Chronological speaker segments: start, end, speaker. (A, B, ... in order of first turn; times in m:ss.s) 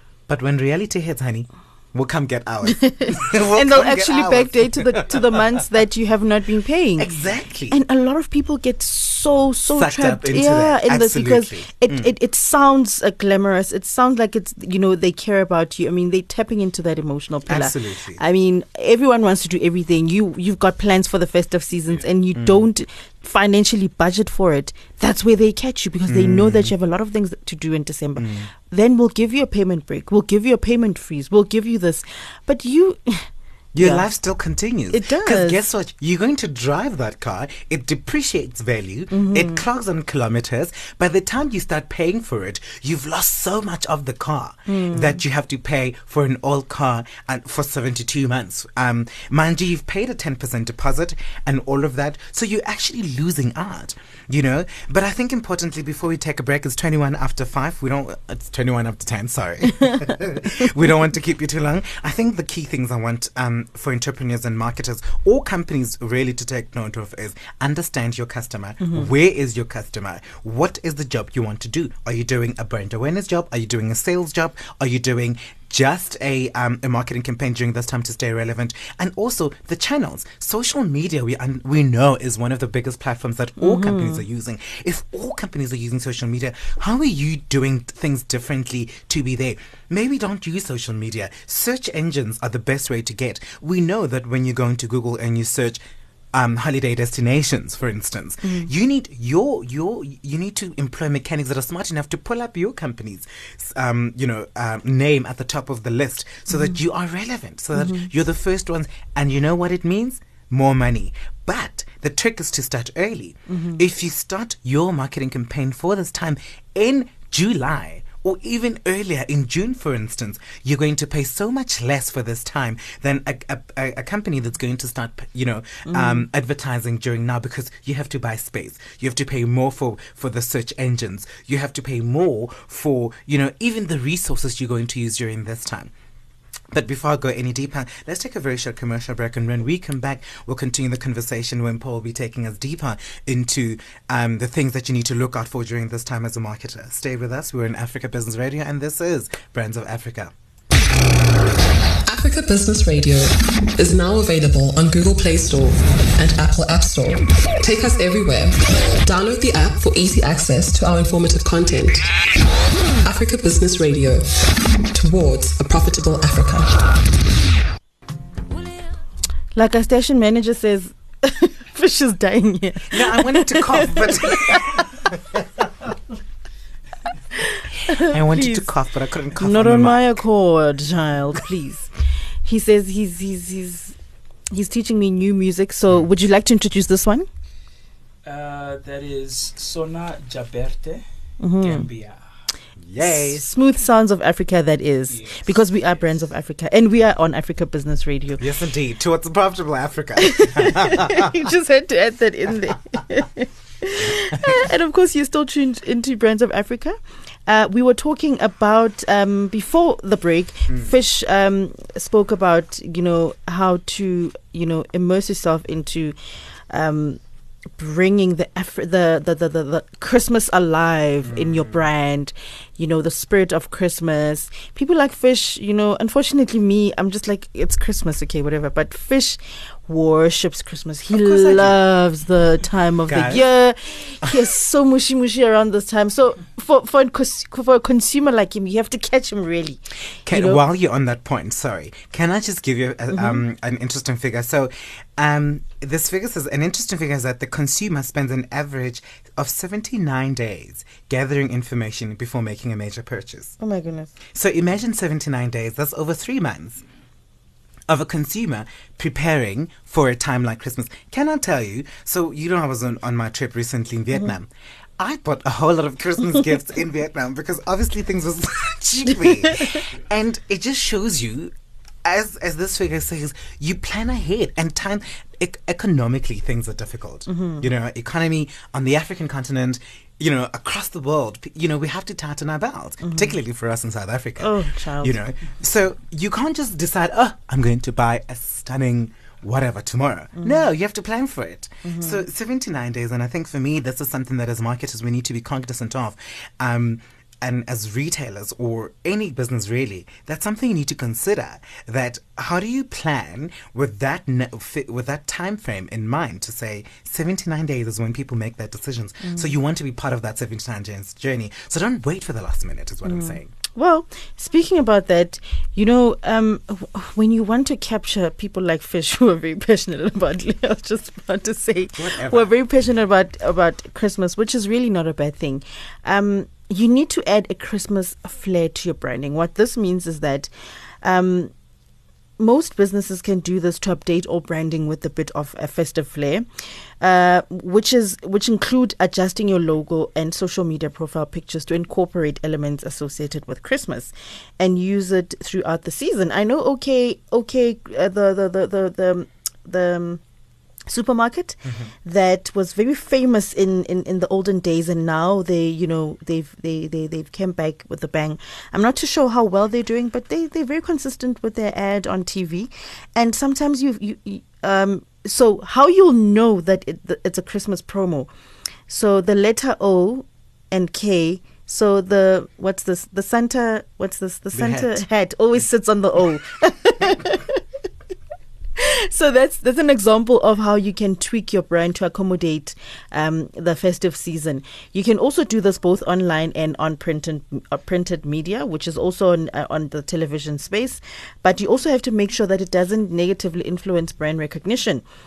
0:00.3-0:05.4 A
0:02.6-0:07.1 B
0:07.0-0:07.8 A
0:07.7-0:34.1 B
0:09.7-0:12.1 A
0:17.5-0:18.2 A
0:22.3-0:22.6 A
0:26.1-0:26.7 A
0:28.2-0:28.5 A
0:33.7-1:35.8 A
0:34.9-0:35.6 B
0:39.1-0:39.6 B
0:44.7-0:45.2 B
1:08.8-1:09.1 B
1:23.6-1:24.2 B
1:36.3-2:15.9 A
1:38.4-1:38.7 B
1:47.7-1:48.1 B
1:53.5-1:53.8 B
2:05.9-2:06.2 B
2:16.7-2:30.3 A
2:32.0-2:42.1 C
2:43.0-2:44.4 C
2:44.9-2:46.9 C
2:49.5-2:54.9 B
2:52.9-2:54.9 A
2:57.3-2:58.7 B
2:57.9-3:00.1 A
2:59.3-3:01.9 B
3:02.4-3:04.0 B
3:04.5-3:07.3 B
3:08.2-3:11.0 D
3:11.4-3:11.9 B
3:11.6-3:12.2 D
3:12.8-3:13.4 A
3:13.0-3:18.4 B
3:15.1-3:16.0 D
3:18.4-3:21.5 A
3:20.2-3:37.2 B
3:37.8-4:00.6 B
3:41.3-3:41.7 A
3:51.1-3:51.8 A
3:53.1-3:53.4 A
4:00.2-4:13.6 A
4:03.1-4:03.4 B
4:13.6-4:14.1 B
4:14.3-4:16.8 A
4:17.9-4:31.5 A
4:32.0-5:13.5 A
4:37.3-4:37.6 B
4:43.0-4:43.3 B
4:44.4-4:45.2 B
4:50.4-4:50.6 B
4:51.8-4:52.2 B
5:09.2-5:09.5 B
5:13.0-5:30.5 B
5:22.0-5:22.5 A
5:31.0-5:31.5 B
5:32.4-5:36.4 B
5:37.0-5:50.2 B
5:50.9-6:08.3 B
5:51.6-5:51.9 A
6:08.9-6:17.6 B
6:14.5-6:15.0 A
6:18.8-6:35.0 B